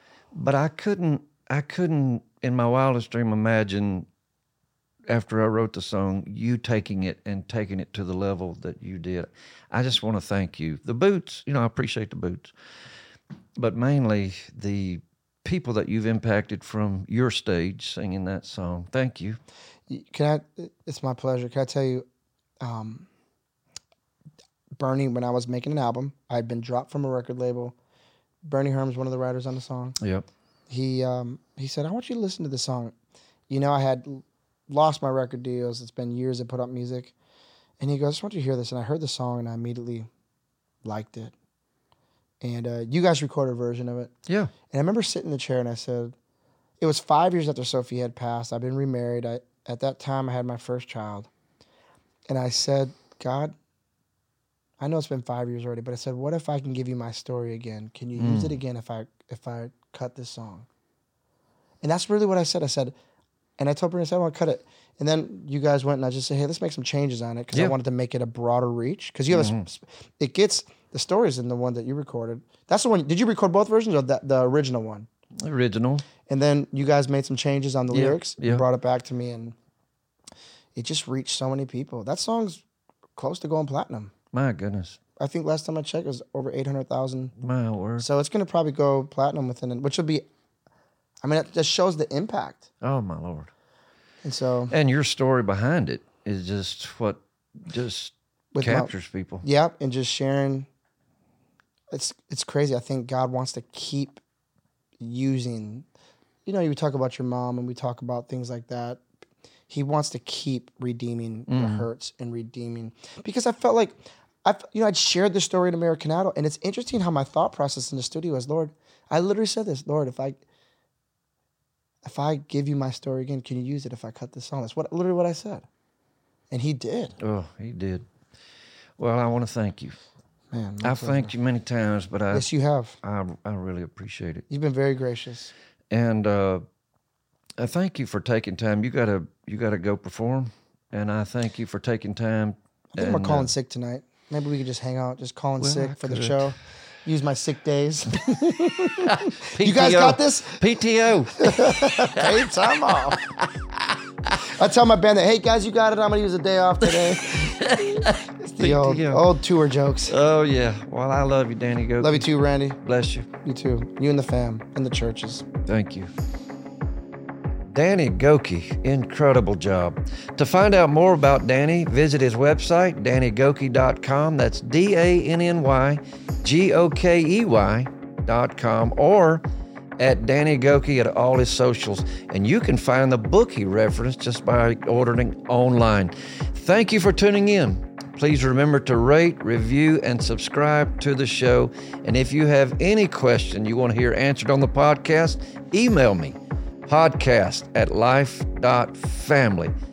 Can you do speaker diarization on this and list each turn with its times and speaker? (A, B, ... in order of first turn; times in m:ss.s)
0:00.4-0:04.1 A
0:05.1-0:12.5 A
0:13.6-0:19.4 A
0:19.9-0:22.0 B
0:22.6-0:23.1 B
0:24.8-0:27.8 B
0:28.5-0:30.0 B
0:30.0-0:30.3 A
0:30.7-0:32.9 B
0:33.5-0:37.1 B
0:37.8-0:40.1 B
0:40.8-0:41.3 B
0:42.4-0:44.1 B
0:44.3-0:44.5 A
0:44.7-0:46.1 B
0:46.8-0:51.3 B
0:52.3-0:53.5 B
0:54.8-1:00.7 B
0:58.2-0:58.6 A
1:01.8-1:03.0 B
1:03.6-1:15.1 B
1:09.3-1:09.7 A
1:15.4-1:16.0 A
1:16.3-1:19.6 B
1:17.9-1:18.6 A
1:20.8-1:22.6 B
1:23.2-1:24.1 B
1:24.3-1:25.0 A
1:25.2-1:27.3 B
1:27.4-1:28.1 A
1:28.0-1:30.2 B
1:31.2-1:32.7 B
1:32.8-1:33.5 A
1:34.2-1:34.7 B
1:34.7-1:39.5 A
1:38.5-1:38.9 B
1:39.4-1:40.7 B
1:41.9-1:44.2 B
1:45.0-1:45.9 B
1:46.4-1:49.0 B
1:49.7-2:00.4 B
1:51.5-1:51.9 A
2:02.0-2:05.7 B
2:06.5-2:07.2 B
2:07.2-2:08.1 A
2:09.0-2:10.0 A
2:10.5-2:11.3 B
2:10.8-2:12.5 A
2:12.3-2:13.0 B
2:13.0-2:14.4 A
2:14.5-2:15.5 B
2:15.9-2:16.6 A
2:17.6-2:23.5 A
2:23.0-2:30.6 B
2:25.6-2:26.5 A
2:29.0-2:32.4 A
2:31.4-2:33.3 B
2:33.1-2:34.4 A
2:34.4-2:40.1 B
2:36.8-2:39.3 A
2:40.1-2:42.3 A
2:42.0-2:42.8 B
2:42.8-2:43.3 A
2:43.4-2:45.5 B
2:45.7-2:46.1 A
2:47.7-2:59.4 A
3:00.0-3:19.7 A